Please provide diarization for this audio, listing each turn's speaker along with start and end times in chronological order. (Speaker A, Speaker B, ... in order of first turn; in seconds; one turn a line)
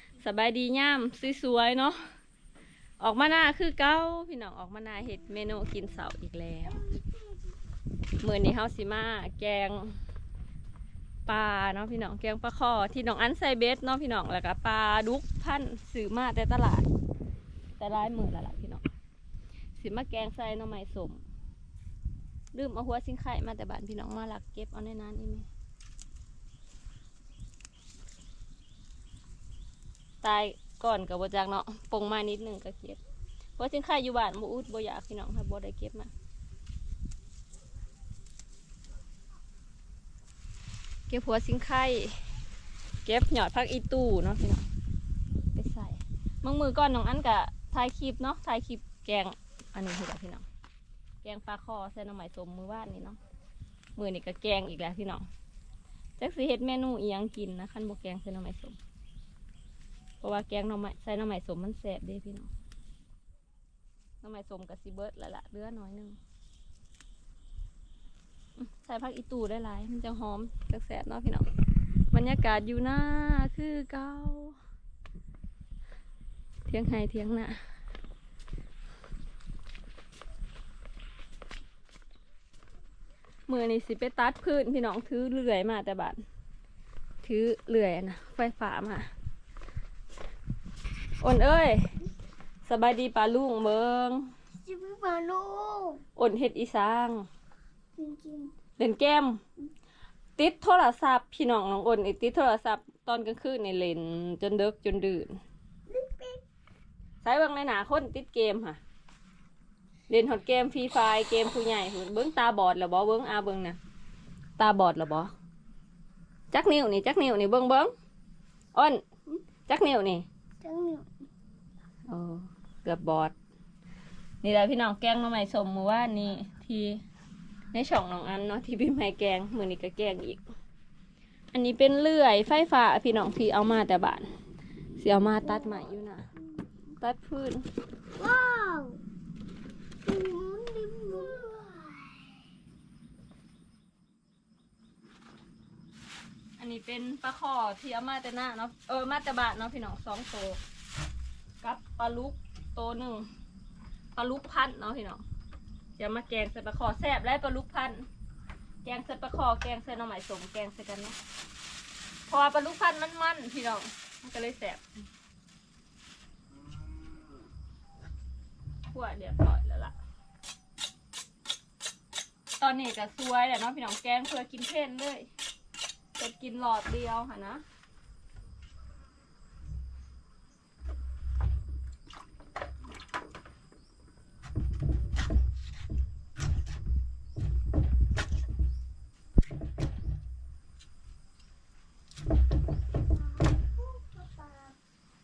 Speaker A: 0.1-2.0
Speaker A: 3.0-6.8
Speaker B: 6.7-7.5
Speaker A: 8.2-10.0
Speaker A: 11.2-16.9
Speaker A: 17.8-18.8
Speaker A: 19.8-21.2
Speaker A: 22.5-25.5
Speaker A: 30.2-33.0
Speaker A: 33.6-36.1
Speaker A: 41.1-42.2
Speaker A: 43.0-44.6
Speaker A: 45.5-50.4
Speaker A: 51.2-53.2
Speaker A: 54.0-55.3
Speaker A: 56.2-58.8
Speaker A: 60.2-62.5
Speaker A: 64.2-66.2
Speaker A: 68.6-71.5
Speaker A: 72.1-74.6
Speaker A: 76.7-77.6
Speaker A: 83.5-86.2
Speaker A: 87.2-89.1
Speaker A: 91.2-91.9
Speaker A: 92.7-94.3
Speaker B: 94.6-96.0
Speaker A: 96.2-97.3
Speaker B: 98.0-98.5
Speaker A: 98.8-99.4
Speaker A: 100.4-105.4
Speaker B: 105.9-106.4
Speaker A: 107.2-108.8
Speaker A: 110.1-113.8
Speaker A: 114.6-115.3
Speaker A: 116.5-117.9
Speaker A: 118.7-119.0
Speaker A: 119.7-120.2
Speaker B: 120.6-121.1
Speaker A: 122.1-123.3
Speaker A: 124.4-127.0
Speaker A: 127.7-130.4
Speaker A: 131.5-134.3
Speaker A: 135.0-136.3
Speaker A: 137.0-137.6
Speaker B: 138.2-139.0
Speaker B: 140.0-142.4
Speaker A: 146.6-150.6
Speaker A: 151.6-153.3
Speaker A: 154.1-155.2
Speaker A: 156.0-158.1
Speaker A: 158.8-161.2
Speaker A: 162.3-164.8
Speaker A: 168.9-169.9
Speaker A: 172.6-175.3
Speaker A: 176.2-177.6
Speaker B: 193.1-194.8